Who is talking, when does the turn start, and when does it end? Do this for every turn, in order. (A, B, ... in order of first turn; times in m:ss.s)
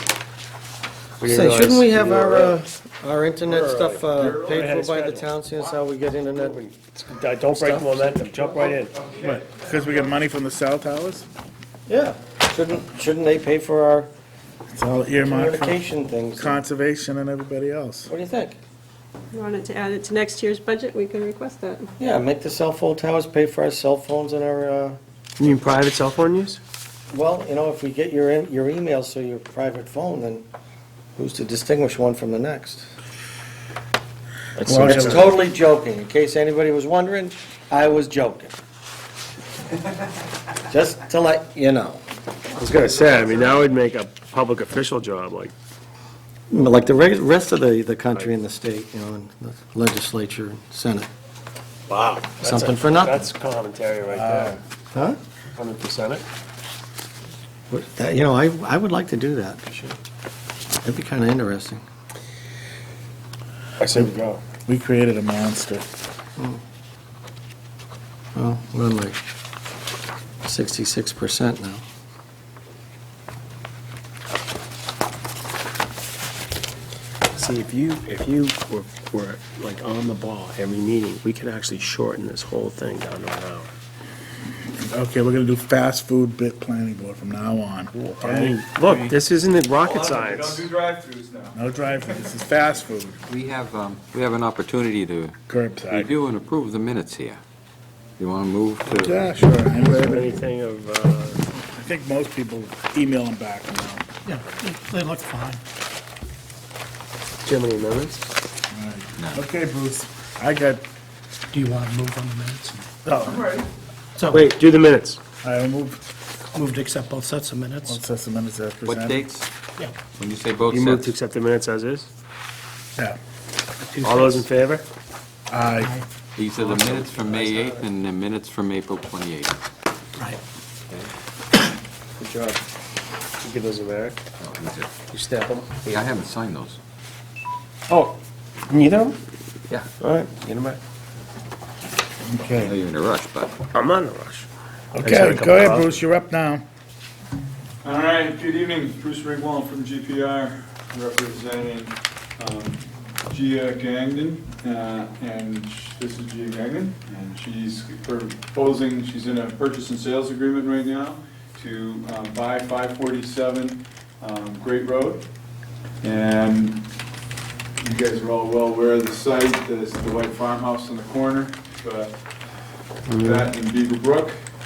0:01.2-0:02.6 A
0:01.2-0:06.6 B
0:03.4-0:05.4 A
0:04.1-0:04.7 C
0:06.3-0:09.0 A
0:07.5-0:08.5 B
0:09.1-0:11.3 D
0:11.9-0:14.1 B
0:14.7-0:18.1 D
0:15.2-0:16.6 B
0:18.1-0:18.6 B
0:19.3-0:21.9 E
0:22.0-0:25.0 B
0:25.4-0:26.6 A
0:27.1-0:30.5 B
0:31.2-0:32.9 B
0:34.6-0:35.4 A
0:34.6-0:35.4 D
0:34.7-0:38.5 B
0:40.7-0:42.0 B
0:42.6-0:45.5 A
0:46.5-0:51.1 B
0:51.9-0:54.6 A
0:52.4-0:53.3 B
0:54.1-0:54.6 D
0:54.9-0:55.2 B
0:55.6-0:56.2 A
0:57.7-0:59.7 B
1:00.8-1:01.8 B
1:03.8-1:04.4 A
1:04.6-1:05.8 D
1:08.3-1:09.2 B
1:10.4-1:11.8 B
1:17.3-1:23.7 A
1:24.8-1:28.6 D
1:28.0-1:30.7 A
1:28.8-1:29.2 F
1:29.8-1:31.6 C
1:31.5-1:33.2 D
1:33.3-1:35.4 F
1:35.5-1:36.1 D
1:35.9-1:37.4 F
1:38.2-1:39.3 F
1:38.9-1:40.3 D
1:39.7-1:41.4 A
1:41.5-1:44.1 D
1:44.2-1:45.6 G
1:47.4-1:48.2 A
1:48.7-1:50.8 D
1:49.2-1:49.4 F
1:51.5-1:52.9 G
1:53.2-1:53.7 C
1:54.2-1:54.6 G
1:54.3-1:55.2 A
1:55.4-1:56.0 D
1:56.5-1:58.0 G
1:57.8-1:59.2 D
1:58.8-1:59.5 F
2:00.2-2:01.1 F
2:00.7-2:02.1 A
2:03.8-2:04.4 G
2:04.0-2:04.4 F
2:04.1-2:04.8 A
2:05.5-2:06.0 D
2:05.8-2:06.0 G
2:06.4-2:09.6 F
2:07.5-2:07.8 A
2:10.2-2:10.4 G
2:12.2-2:12.6 A
2:13.4-2:14.2 A
2:14.4-2:14.9 F
2:15.1-2:15.8 A
2:15.8-2:16.8 F
2:17.9-2:18.2 A
2:18.7-2:19.2 A
2:20.0-2:20.8 A
2:22.2-2:22.8 D
2:22.6-2:23.5 F
2:23.7-2:24.5 A
2:24.9-2:26.6 D
2:25.0-2:26.0 A
2:27.8-2:45.2 C
2:46.0-2:46.8 C
2:47.8-2:52.1 C
2:53.1-2:53.5 A
2:53.2-2:54.3 C